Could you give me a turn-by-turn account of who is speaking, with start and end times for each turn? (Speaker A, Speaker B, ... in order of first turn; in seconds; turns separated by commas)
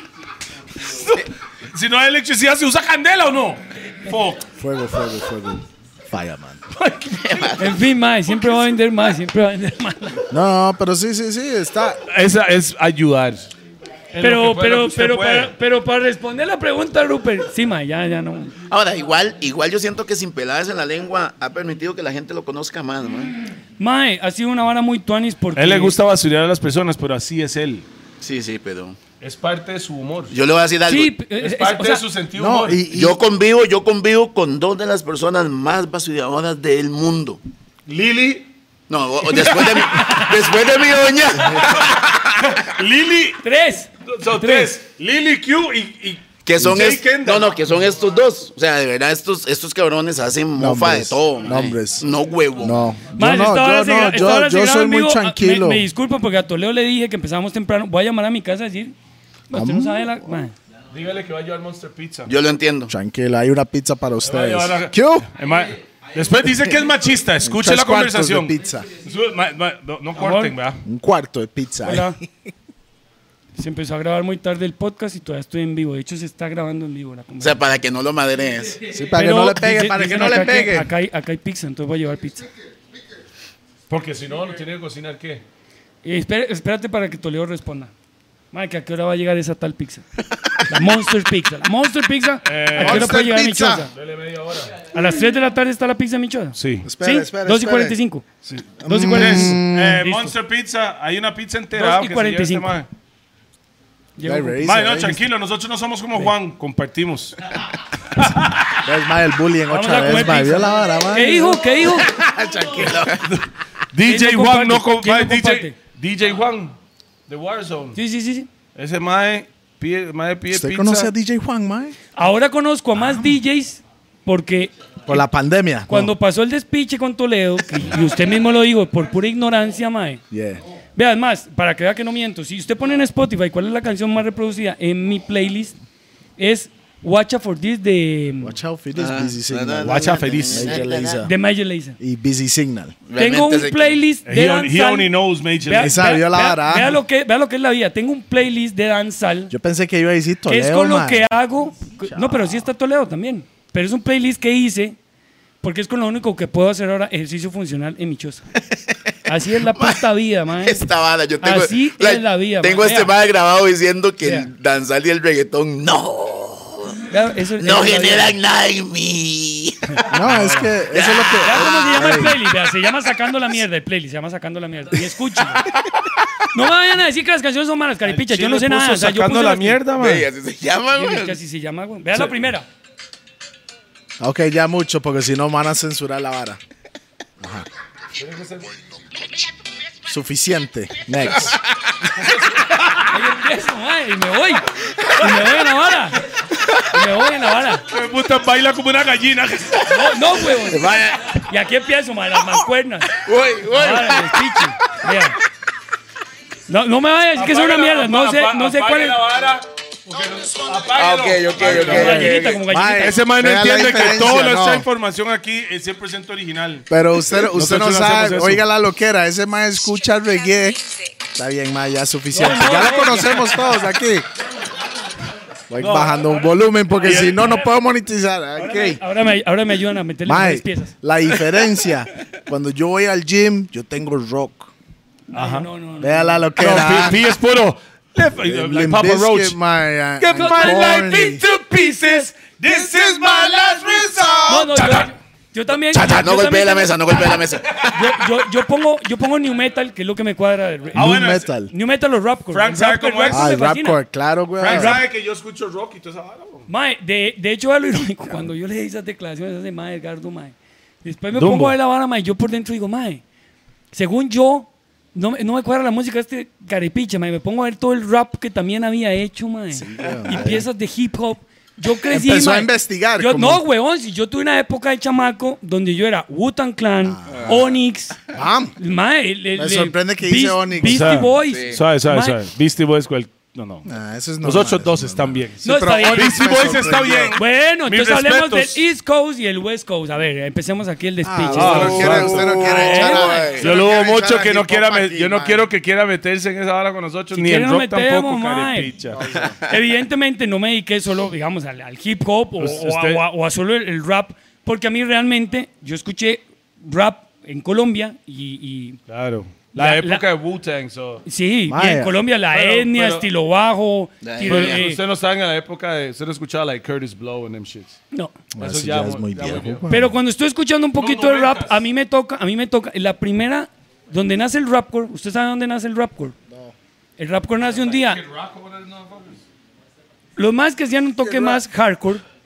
Speaker A: 0.8-4.5, Speaker B: 4.6-6.6, Speaker A: 6.7-7.5, Speaker C: 7.1-7.8, Speaker D: 7.5-10.2, Speaker B: 10.3-12.0, Speaker A: 12.1-13.5, Speaker A: 14.1-15.5, Speaker D: 14.2-18.5, Speaker C: 18.7-23.3, Speaker D: 23.8-26.0, Speaker A: 25.6-27.9, Speaker C: 28.2-29.0, Speaker A: 29.2-30.3, Speaker C: 30.3-31.1, Speaker D: 30.9-32.0, Speaker A: 31.4-32.8, Speaker B: 32.4-33.2, Speaker C: 32.9-37.4, Speaker A: 37.9-38.5, Speaker C: 38.9-42.6, Speaker A: 39.2-40.3, Speaker A: 42.4-43.4, Speaker D: 43.4-44.7, Speaker A: 44.0-47.5, Speaker C: 46.4-52.9, Speaker B: 50.5-52.0, Speaker B: 52.6-55.9, Speaker D: 53.1-58.9, Speaker D: 59.5-60.5, Speaker B: 59.5-60.2, Speaker A: 60.9-62.3, Speaker C: 62.3-62.9, Speaker B: 62.9-65.3, Speaker A: 64.2-70.8, Speaker B: 67.4-68.9, Speaker D: 70.2-70.5, Speaker B: 70.8-72.3, Speaker D: 71.8-72.2, Speaker D: 73.6-77.6, Speaker C: 77.4-78.8, Speaker B: 78.9-80.9, Speaker D: 79.1-82.5, Speaker A: 83.9-85.4, Speaker D: 86.0-87.9, Speaker D: 88.5-90.0, Speaker D: 90.6-93.9, Speaker A: 92.4-93.2, Speaker B: 92.8-93.9, Speaker A: 93.9-94.8, Speaker D: 94.9-98.2, Speaker A: 96.5-96.9, Speaker B: 96.8-98.0, Speaker A: 98.4-102.9, Speaker B: 98.8-100.0, Speaker D: 98.8-100.3, Speaker D: 101.7-102.7, Speaker D: 104.2-104.6, Speaker B: 104.2-105.2, Speaker A: 104.6-107.5, Speaker A: 108.2-108.8, Speaker B: 108.8-111.7, Speaker D: 109.7-112.1, Speaker C: 111.8-113.3, Speaker A: 113.0-116.8, Speaker D: 114.0-115.7, Speaker A: 117.3-118.0, Speaker D: 117.9-118.5, Speaker A: 118.7-121.1, Speaker B: 120.5-122.0, Speaker D: 122.2-125.2, Speaker B: 123.0-123.3, Speaker B: 125.0-126.1, Speaker D: 125.9-130.2, Speaker B: 130.3-130.6, Speaker D: 130.9-135.7, Speaker D: 136.4-138.6, Speaker B: 138.4-141.3, Speaker C: 138.9-141.3, Speaker A: 139.8-140.9, Speaker D: 141.2-142.0, Speaker B: 142.0-142.9, Speaker C: 143.1-144.0, Speaker D: 143.1-145.1, Speaker A: 144.2-146.0, Speaker D: 145.6-149.5, Speaker B: 145.8-147.0, Speaker B: 149.5-151.3, Speaker D: 150.5-155.0, Speaker B: 152.0-152.7, Speaker D: 155.6-158.4, Speaker D: 159.2-160.9, Speaker C: 159.6-167.0, Speaker D: 161.4-163.1, Speaker D: 164.2-164.5, Speaker D: 167.1-168.3, Speaker C: 167.6-170.1, Speaker B: 170.1-172.4, Speaker A: 170.3-170.7, Speaker C: 170.9-172.2, Speaker D: 171.4-175.6, Speaker D: 176.5-179.8, Speaker A: 178.0-180.3, Speaker C: 179.9-181.4, Speaker D: 180.9-182.7, Speaker B: 184.2-186.6, Speaker B: 187.4-187.7, Speaker A: 188.2-188.7, Speaker B: 190.1-191.6, Speaker A: 192.1-193.0, Speaker D: 193.0-196.2, Speaker D: 196.9-197.8, Speaker A: 197.9-200.2, Speaker D: 199.8-205.4, Speaker C: 200.6-201.4, Speaker C: 203.2-204.5, Speaker D: 206.7-209.2, Speaker A: 207.3-212.4, Speaker C: 210.8-212.6, Speaker D: 211.6-213.2, Speaker B: 211.6-214.9, Speaker A: 213.0-218.6, Speaker B: 216.9-224.2, Speaker D: 222.3-223.6, Speaker B: 225.7-229.0, Speaker A: 225.8-226.4, Speaker A: 227.0-227.5, Speaker D: 227.0-227.7, Speaker D: 228.6-230.9, Speaker B: 230.2-234.7, Speaker D: 235.3-236.8, Speaker A: 235.3-235.7, Speaker B: 236.0-237.2, Speaker A: 236.6-239.6, Speaker B: 238.4-241.4, Speaker A: 240.2-245.1, Speaker D: 240.3-242.2, Speaker B: 242.6-244.7, Speaker D: 244.5-247.3, Speaker C: 245.9-248.1, Speaker D: 247.9-251.1, Speaker A: 250.9-251.5, Speaker B: 250.9-251.7, Speaker D: 251.7-254.0, Speaker A: 252.5-253.4, Speaker B: 253.3-255.0, Speaker A: 254.6-256.7, Speaker D: 254.6-255.0, Speaker D: 256.7-263.2, Speaker A: 261.3-261.7, Speaker D: 263.9-278.2, Speaker B: 269.7-270.7, Speaker B: 272.1-273.6, Speaker B: 277.0-277.6, Speaker C: 277.3-277.7, Speaker B: 278.3-278.7, Speaker D: 278.8-282.4, Speaker B: 279.6-281.1, Speaker A: 280.8-283.9, Speaker C: 281.4-281.8, Speaker B: 283.8-287.4, Speaker A: 284.4-288.8, Speaker D: 285.6-293.6, Speaker B: 291.2-295.6, Speaker A: 291.5-292.7, Speaker C: 291.7-293.7, Speaker A: 293.6-299.2, Speaker D: 297.3-298.9, Speaker B: 299.1-299.5, Speaker C: 299.2-299.7, Speaker D: 299.7-309.0, Speaker A: 302.6-303.2, Speaker A: 309.1-311.2, Speaker D: 309.7-310.2, Speaker D: 311.2-315.0, Speaker B: 311.7-312.2, Speaker A: 312.5-313.3, Speaker C: 314.2-314.8, Speaker A: 314.4-318.0, Speaker B: 318.5-320.2, Speaker A: 318.6-319.8, Speaker D: 319.9-326.3, Speaker A: 321.0-321.8, Speaker D: 327.2-328.2, Speaker A: 327.6-329.4, Speaker D: 330.4-332.2, Speaker B: 331.2-331.6